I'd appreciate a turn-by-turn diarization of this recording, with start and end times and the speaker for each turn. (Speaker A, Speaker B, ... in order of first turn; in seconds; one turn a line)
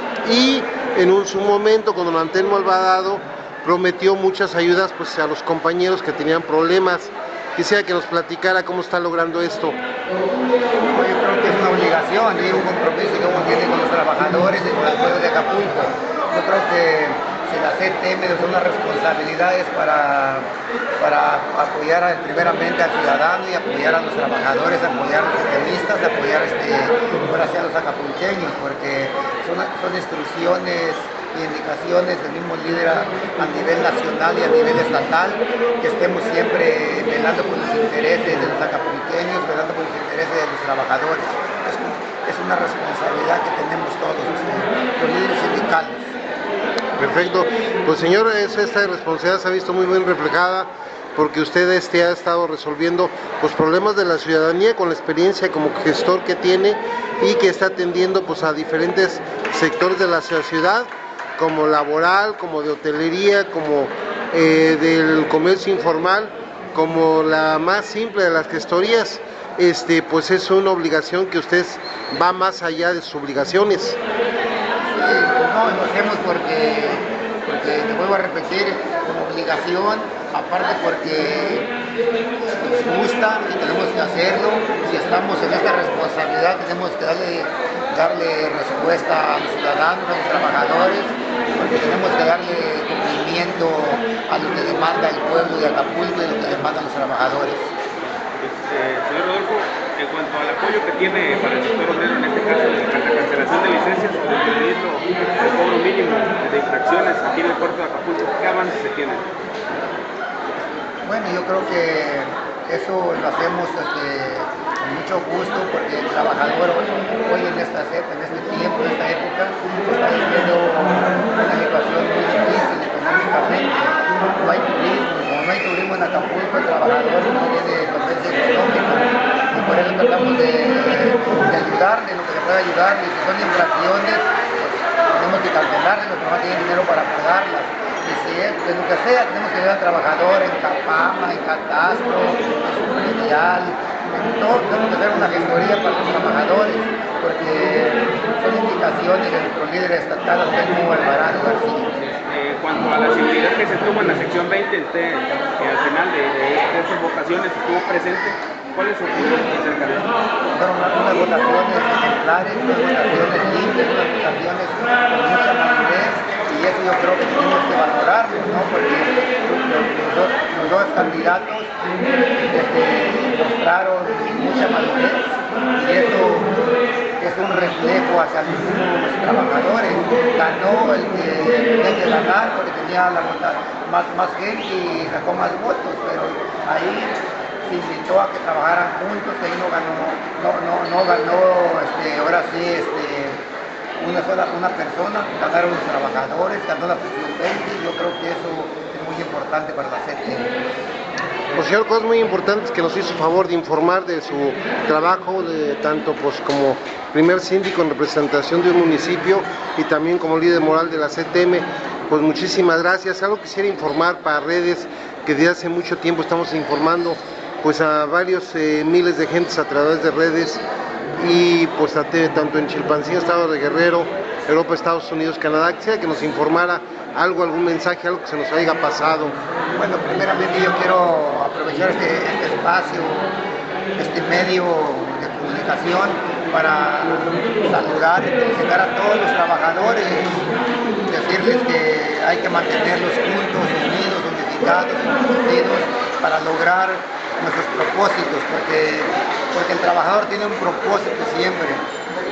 Speaker A: 0.2-9.8
Speaker B: 10.8-46.2
Speaker A: 47.0-74.0
Speaker B: 74.8-81.7
Speaker B: 82.6-97.7
Speaker C: 98.3-109.3
Speaker B: 111.0-151.9
Speaker C: 152.1-160.2
Speaker B: 160.5-171.7
Speaker B: 172.4-176.5
Speaker B: 177.2-193.4
Speaker B: 194.0-200.6
Speaker A: 201.6-220.6
Speaker A: 221.2-229.4
Speaker B: 229.8-233.3
Speaker B: 234.0-240.5
Speaker B: 241.1-251.9